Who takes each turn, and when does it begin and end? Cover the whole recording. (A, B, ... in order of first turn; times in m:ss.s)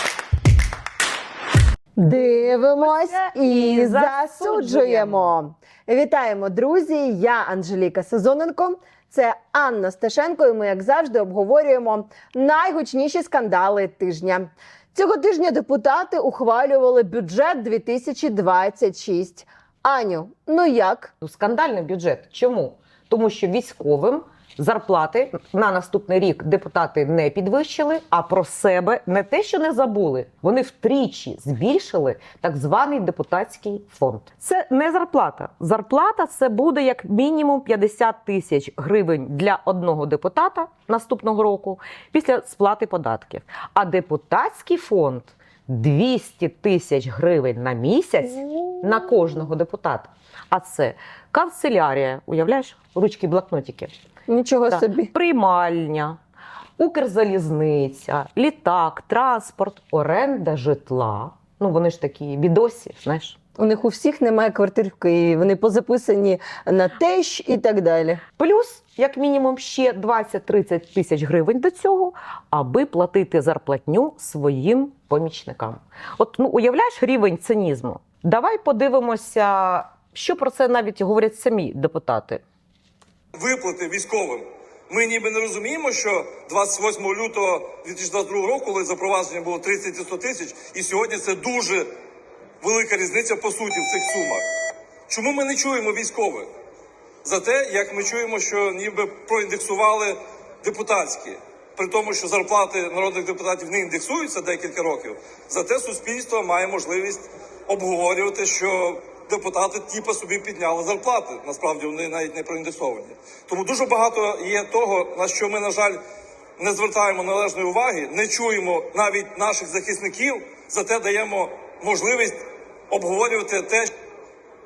0:02.0-0:21.1 A
0:02.2-0:05.3 B
0:21.2-0:53.9 B
0:54.3-0:55.1 A
0:54.7-0:56.2 B
0:56.8-1:03.4 B
1:03.6-1:08.2 A
1:08.4-1:22.4 B
1:23.4-1:31.9 C
1:32.6-1:34.4 C
1:35.1-1:36.5 C
1:37.2-1:56.0 C
1:56.6-2:02.4 C
2:02.9-2:03.9 C